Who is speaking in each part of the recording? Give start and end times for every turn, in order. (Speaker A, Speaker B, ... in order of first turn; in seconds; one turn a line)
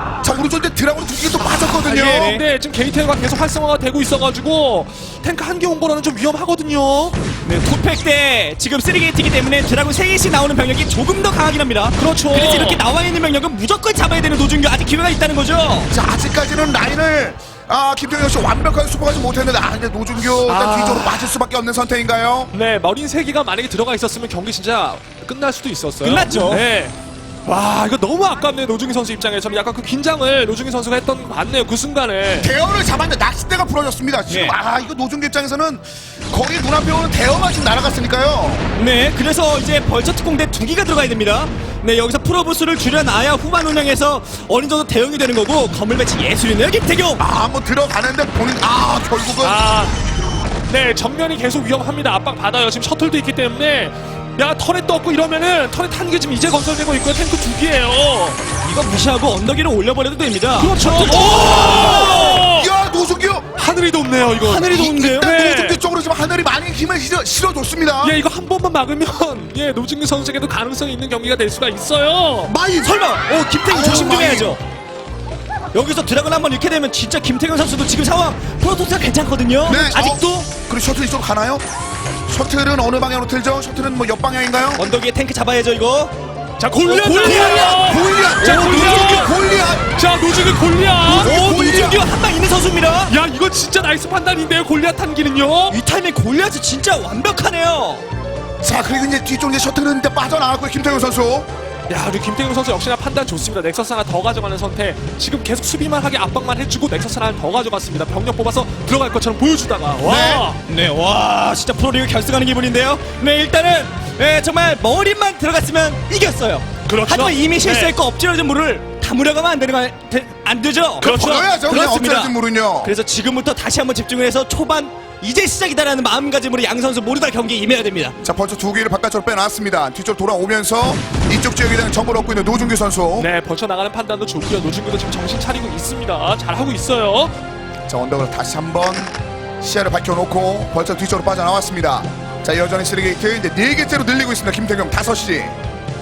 Speaker A: 0.2-2.3
Speaker B: 1.6-7.2
Speaker C: 1.9-2.4
Speaker C: 7.5-15.9
Speaker B: 12.0-12.8
Speaker A: 15.9-22.5
Speaker B: 20.5-21.3
Speaker B: 22.5-26.9
Speaker C: 26.0-26.6
Speaker B: 27.5-32.5
Speaker A: 32.4-38.7
Speaker C: 34.3-34.6
Speaker C: 38.8-47.2
Speaker A: 47.2-49.6
Speaker B: 49.4-50.0
Speaker B: 50.7-58.4
Speaker C: 58.6-62.5
Speaker B: 60.6-62.7
Speaker A: 61.3-63.5
Speaker B: 63.6-65.8
Speaker C: 64.4-65.3
Speaker A: 64.6-68.2
Speaker B: 68.0-72.5
Speaker A: 72.5-72.9
Speaker C: 72.5-74.6
Speaker A: 73.7-74.6
Speaker C: 75.7-80.5
Speaker A: 79.7-81.7
Speaker A: 82.3-84.8
Speaker C: 84.8-86.1
Speaker B: 86.6-89.3
Speaker C: 86.8-89.3
Speaker A: 87.2-89.9
Speaker B: 90.0-91.3
Speaker C: 91.1-93.2
Speaker A: 91.1-92.1
Speaker B: 93.1-95.8
Speaker C: 95.7-98.0
Speaker A: 98.6-101.5
Speaker B: 101.9-110.6
Speaker A: 110.0-110.5
Speaker C: 110.7-128.2
Speaker B: 116.9-118.0
Speaker B: 121.0-121.5
Speaker A: 121.0-122.9
Speaker A: 128.2-133.3
Speaker B: 133.2-137.3
Speaker A: 137.9-145.6